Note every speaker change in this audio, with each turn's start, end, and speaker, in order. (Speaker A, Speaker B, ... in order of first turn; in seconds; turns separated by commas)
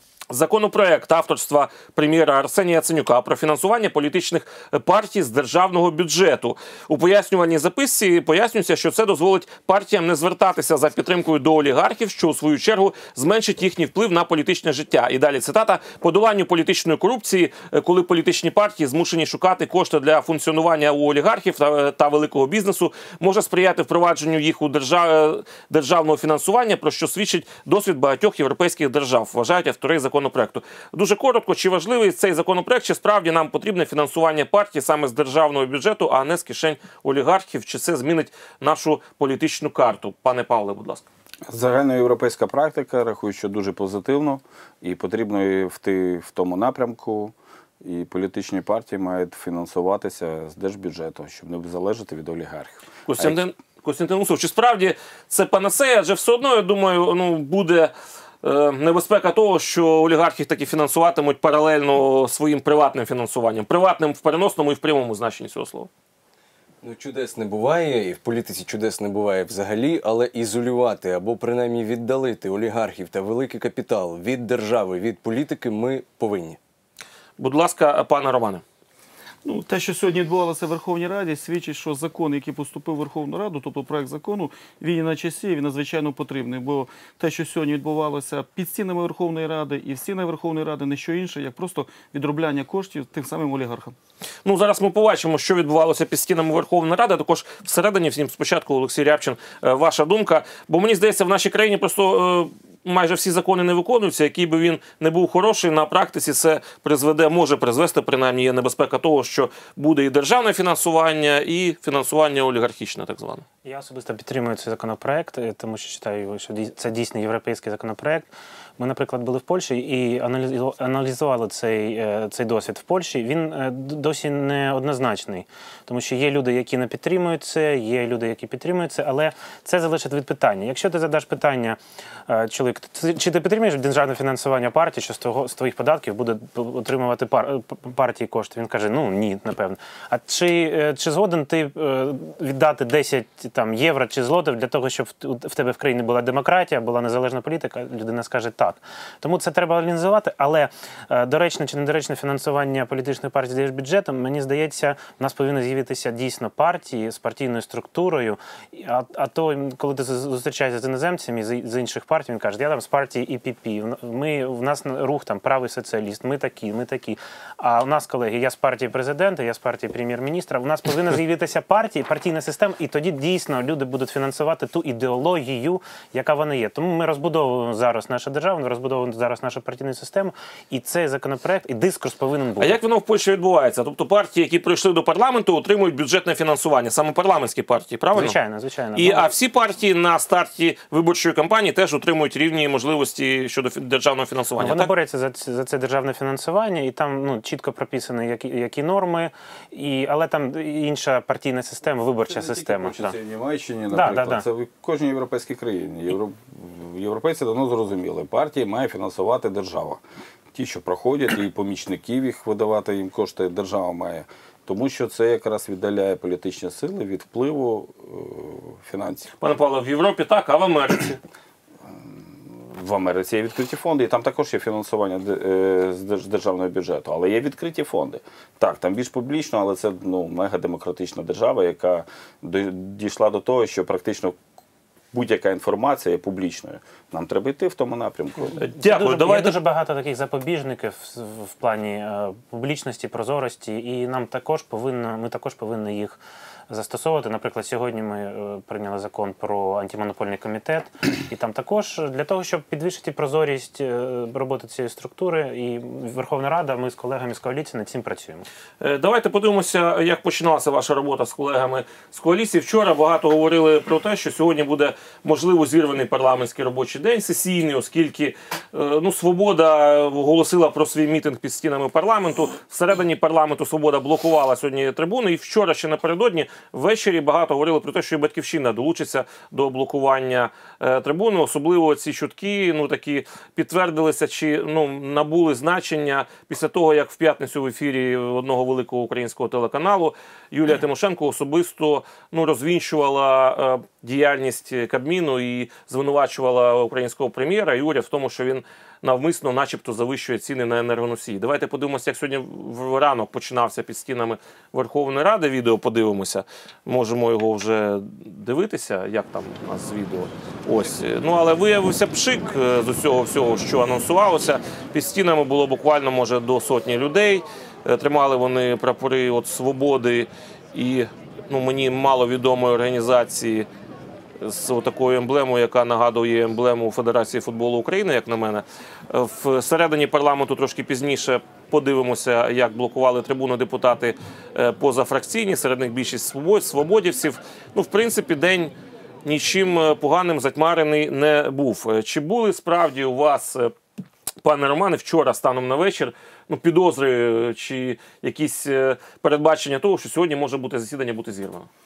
Speaker A: 0.3-41.1, Speaker B: 41.5-53.4, Speaker A: 53.1-57.9, Speaker A: 58.4-65.9, Speaker C: 66.8-76.6, Speaker A: 77.4-78.6, Speaker D: 79.4-94.0, Speaker A: 94.5-113.5, Speaker E: 113.6-182.8, Speaker A: 182.6-188.4, Speaker E: 188.1-189.3, Speaker A: 189.0-194.9, Speaker E: 194.6-203.2, Speaker B: 202.3-210.0, Speaker E: 203.9-204.4, Speaker B: 210.5-219.3, Speaker A: 219.4-221.2, Speaker B: 221.9-234.4, Speaker B: 235.1-238.6, Speaker A: 238.6-239.6, Speaker E: 238.8-246.2, Speaker E: 246.7-258.5, Speaker A: 258.8-323.7, Speaker A: 324.4-338.7, Speaker A: 339.2-343.7, Speaker A: 344.4-351.7